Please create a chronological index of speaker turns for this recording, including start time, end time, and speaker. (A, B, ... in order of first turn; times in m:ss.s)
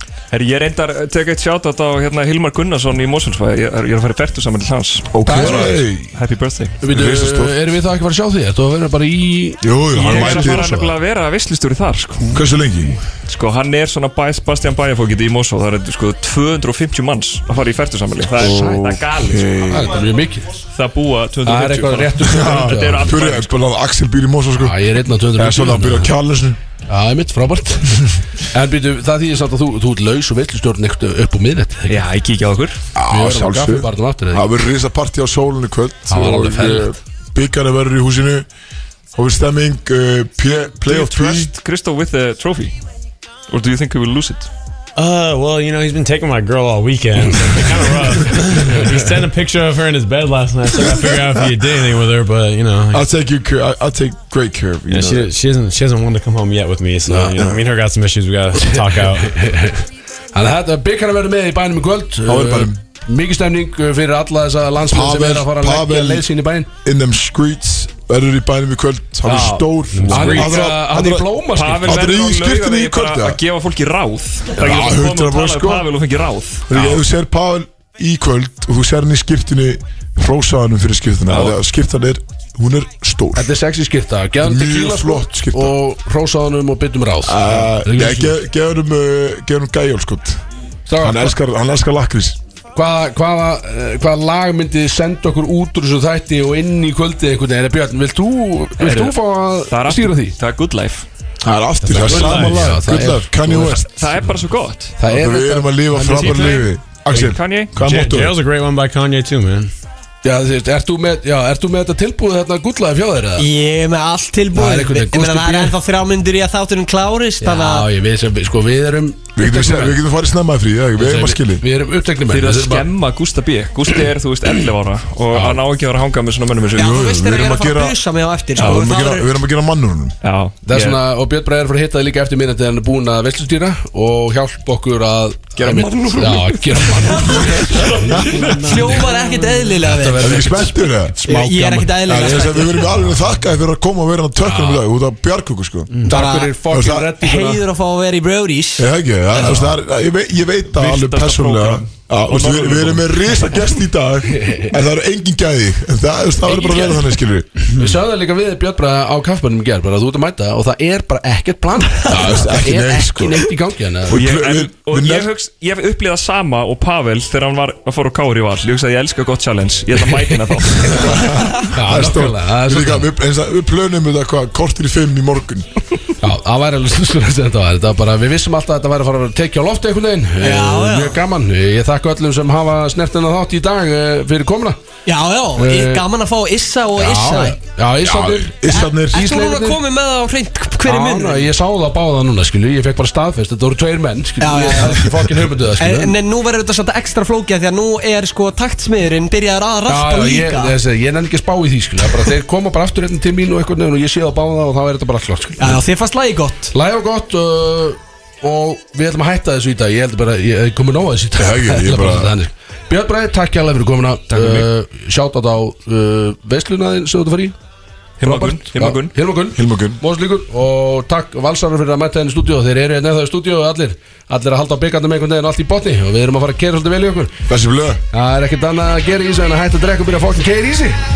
0:00.3-0:06.8 A
0:05.1-0:06.1 B
0:05.3-0:05.8 C
0:06.8-0:10.8 C
0:06.8-0:07.6 B
0:09.6-0:10.9 B
0:09.9-0:12.4 A
0:12.3-0:13.0 B
0:13.3-0:20.0 A
0:18.4-0:19.1 C
0:18.4-0:20.1 B
0:19.7-0:20.5 C
0:20.7-0:23.6 A
0:21.4-0:23.3 C
0:22.4-0:24.8 B
0:24.6-0:26.1 C
0:25.4-0:26.6 B
0:26.9-0:32.1 C
0:31.9-0:32.8 A
0:33.0-0:38.5 B
0:33.0-0:34.5 C
0:36.1-0:36.9 C
0:39.1-0:41.5 B
0:40.5-0:42.8 A
0:43.5-0:44.5 A
0:45.0-0:53.0 D
0:50.9-0:51.1 B
0:52.9-0:55.3 B
0:54.9-0:59.4 D
0:57.1-0:57.5 C
0:57.3-0:57.6 B
0:58.6-1:06.7 C
1:02.3-1:02.8 B
1:04.9-1:06.3 B
1:06.8-1:11.3 B
1:09.2-1:12.1 C
1:09.9-1:10.7 D
1:11.5-1:17.0 A
1:11.9-1:13.4 B
1:14.6-1:15.9 B
1:16.7-1:23.5 B
1:23.4-1:28.3 C
1:24.4-1:25.8 B
1:27.2-1:30.4 B
1:30.9-1:31.4 C
1:31.0-1:32.4 B
1:32.7-1:40.4 C
1:38.8-1:41.1 A
1:41.4-1:44.1 B
1:41.8-1:42.8 D
1:42.0-1:43.9 C
1:43.9-1:45.0 A
1:45.0-1:46.7 C
1:45.1-1:48.4 B
1:47.1-1:47.8 A
1:47.8-1:49.7 D
1:50.2-1:53.4 C
1:53.4-1:57.8 E
1:54.5-1:55.8 C
1:57.4-2:00.0 C
1:59.4-2:01.6 B
2:01.0-2:02.9 C
2:02.3-2:07.0 A
2:05.3-2:05.6 C
2:06.8-2:08.0 B
2:06.8-2:09.3 E
2:08.6-2:10.2 B
2:08.6-2:08.9 A
2:10.2-2:11.0 A
2:10.7-2:18.3 C
2:15.6-2:18.6 A
2:18.6-2:23.0 E
2:20.2-2:21.3 B
2:20.8-2:21.9 C
2:22.0-2:26.1 B
2:24.4-2:24.8 C
2:26.0-2:27.6 C
2:26.1-2:29.6 E
2:26.7-2:27.1 B
2:28.8-2:37.5 B
2:30.7-2:33.0 A
2:34.4-2:34.7 C
2:36.5-2:37.0 E
2:37.8-2:44.2 C
2:42.1-2:43.5 B
2:44.1-2:45.3 B
2:44.1-2:51.5 A
2:50.0-2:51.1 C
2:51.0-2:55.7 B
2:51.7-2:53.1 C
2:56.2-3:04.8 C
3:00.4-3:01.2 E
3:05.1-3:07.6 E
3:05.6-3:06.0 C
3:07.0-3:09.8 C
3:08.0-3:09.2 B
3:08.7-3:11.5 E
3:10.8-3:16.2 C
3:14.4-3:15.1 E
3:15.8-3:20.8 E
3:19.9-3:25.8 C
3:25.6-3:26.7 E
3:26.7-3:37.6 C
3:31.4-3:32.3 B
3:34.3-3:34.7 A
3:38.2-3:39.1 A
3:38.2-3:47.4 C
3:39.5-3:40.0 B
3:47.5-3:48.0 B
3:48.1-3:51.0 C